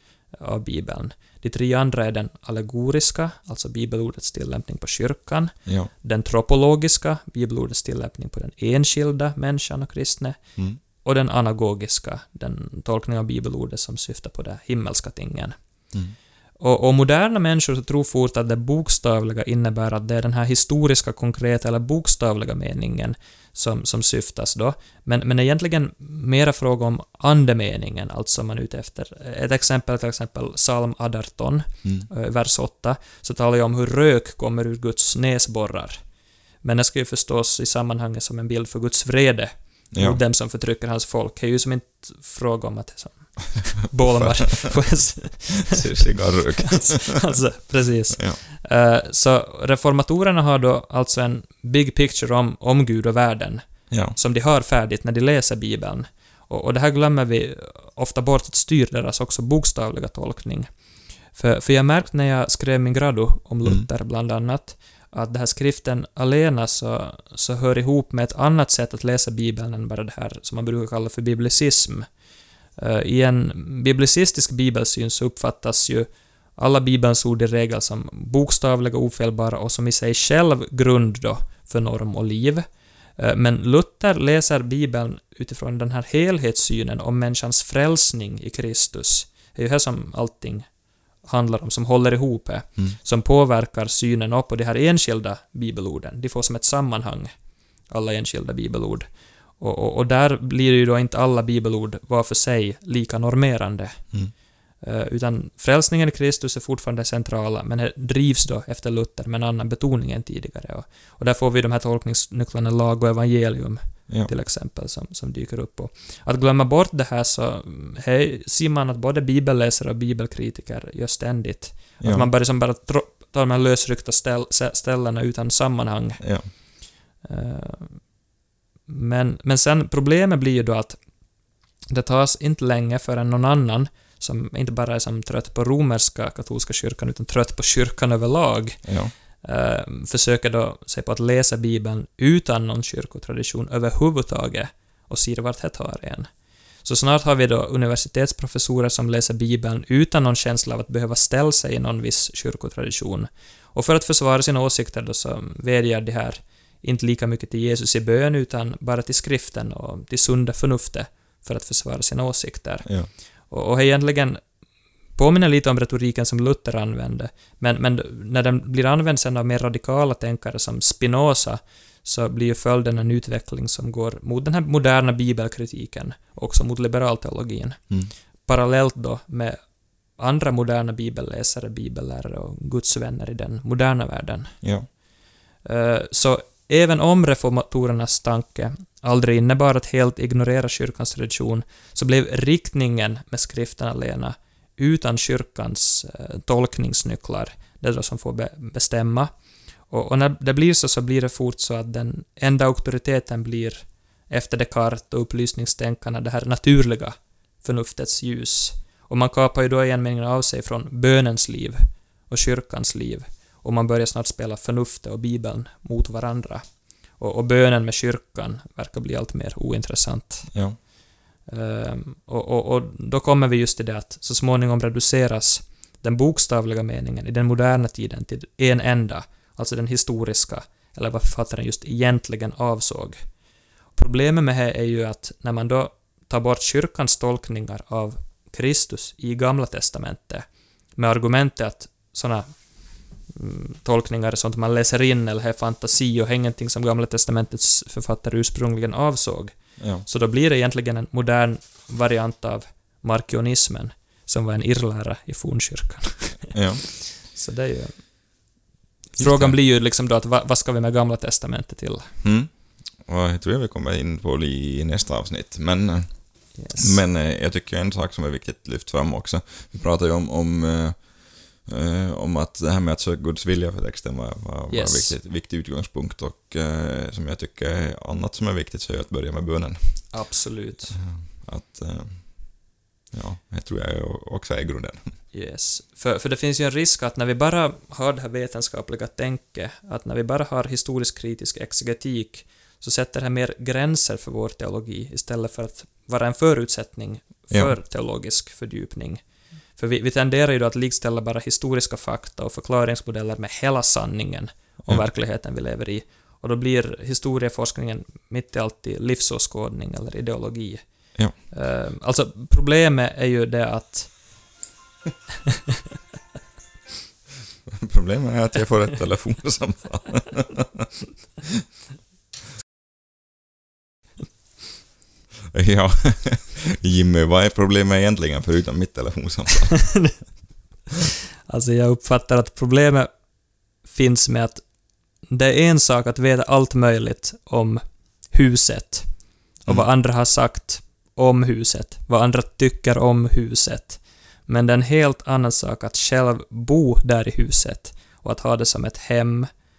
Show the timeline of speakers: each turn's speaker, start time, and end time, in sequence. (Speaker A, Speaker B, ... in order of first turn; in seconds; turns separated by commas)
Speaker A: 0.4-10.4, Speaker A: 11.0-15.5, Speaker A: 16.6-36.0, Speaker A: 36.6-60.7, Speaker B: 39.9-40.2, Speaker B: 44.0-44.4, Speaker B: 45.7-47.3, Speaker B: 48.1-48.4, Speaker B: 53.9-54.1, Speaker A: 61.3-72.0, Speaker A: 72.8-82.6, Speaker A: 83.2-90.7, Speaker A: 91.2-97.3, Speaker A: 97.9-104.2, Speaker A: 104.8-126.4, Speaker B: 122.0-122.3, Speaker B: 126.2-126.5, Speaker A: 127.2-128.0, Speaker A: 128.9-131.0, Speaker A: 131.9-146.3, Speaker B: 138.8-139.1, Speaker A: 146.8-164.4, Speaker B: 162.8-163.1, Speaker A: 165.2-179.6, Speaker A: 180.2-184.6, Speaker B: 184.6-184.9, Speaker A: 185.6-199.3, Speaker A: 199.9-216.6, Speaker A: 217.2-220.5, Speaker B: 220.5-220.8, Speaker A: 221.5-233.2, Speaker A: 233.9-240.4, Speaker A: 241.0-242.6, Speaker A: 243.2-258.1, Speaker B: 249.8-250.0, Speaker B: 256.5-256.9, Speaker A: 259.1-262.1, Speaker B: 259.2-259.6, Speaker B: 262.2-280.3, Speaker A: 266.5-267.0, Speaker A: 274.7-275.2, Speaker A: 280.1-281.0, Speaker B: 280.9-285.1, Speaker A: 285.3-314.2, Speaker B: 317.6-320.9, Speaker B: 325.5-330.2, Speaker A: 331.5-333.1, Speaker A: 333.8-334.6, Speaker A: 335.3-349.5